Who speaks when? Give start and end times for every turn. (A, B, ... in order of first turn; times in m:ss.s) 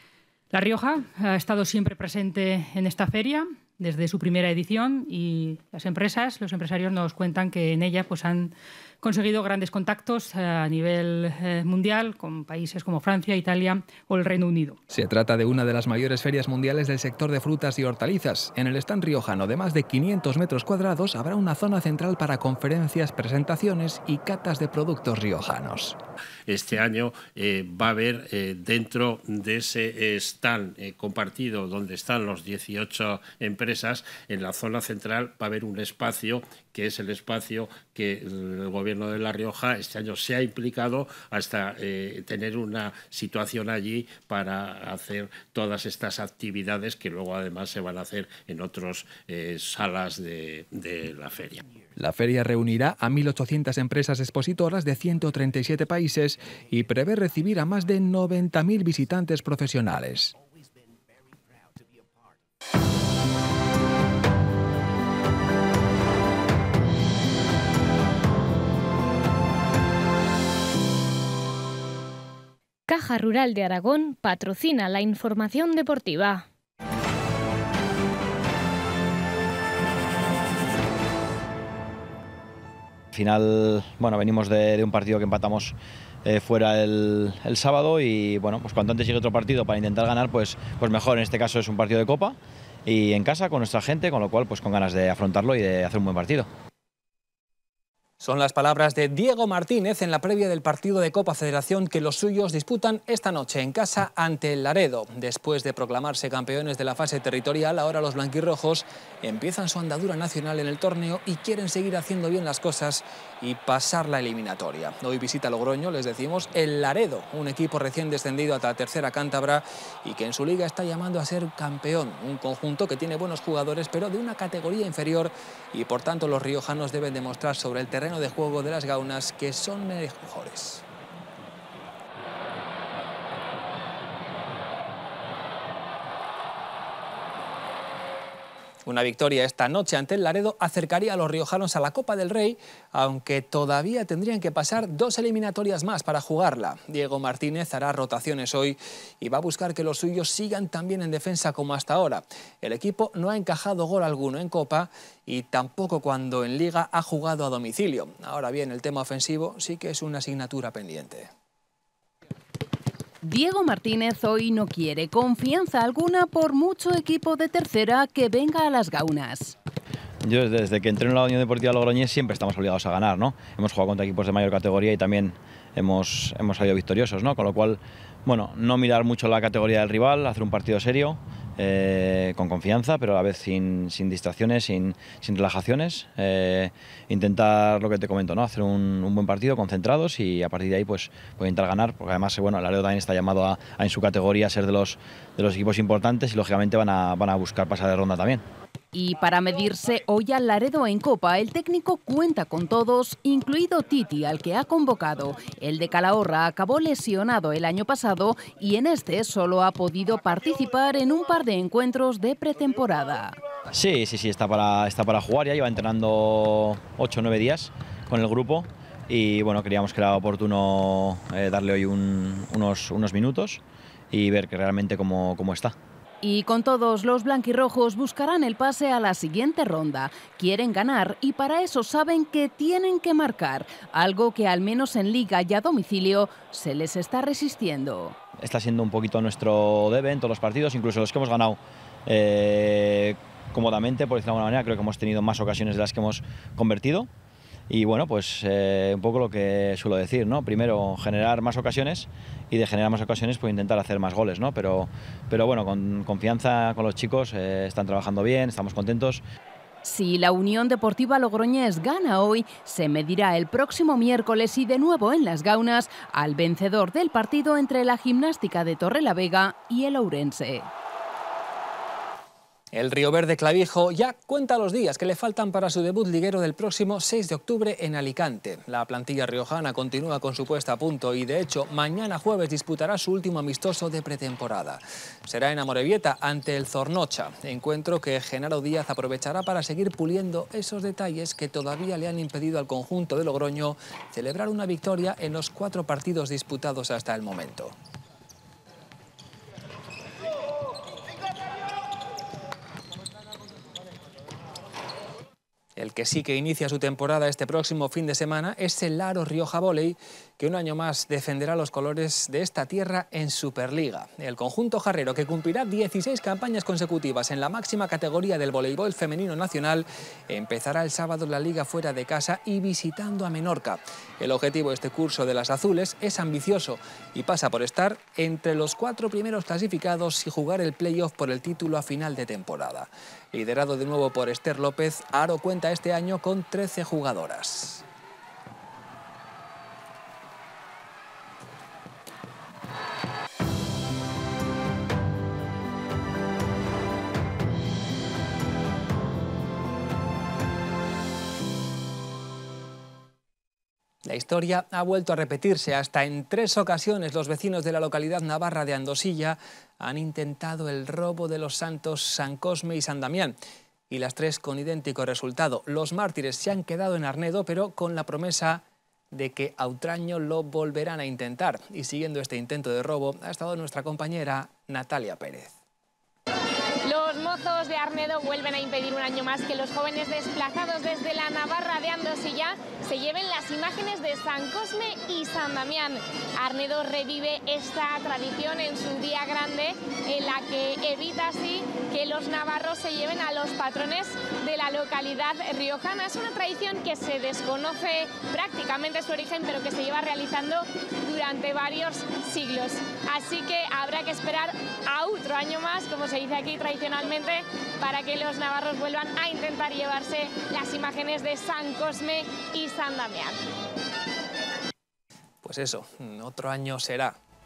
0:00.5-0:14.8 A
0:14.9-0:26.0 B
0:26.5-0:51.6 C
0:52.0-1:00.3 B
1:12.9-1:16.4 D
1:23.1-1:36.5 E
1:38.2-2:10.8 B
2:18.8-2:41.3 B
2:43.2-2:49.5 F
2:50.2-3:18.4 E
3:18.9-3:33.4 F
3:33.7-3:43.6 E
3:44.1-3:45.7 E
3:46.2-3:58.2 F
3:58.4-4:07.1 E
4:07.7-4:19.2 E
4:19.8-4:30.7 F
4:32.7-4:57.7 B
5:05.8-5:37.8 B
5:54.0-6:03.4 B
6:03.9-6:15.5 B
6:16.9-6:53.4 G
6:55.4-6:57.1 B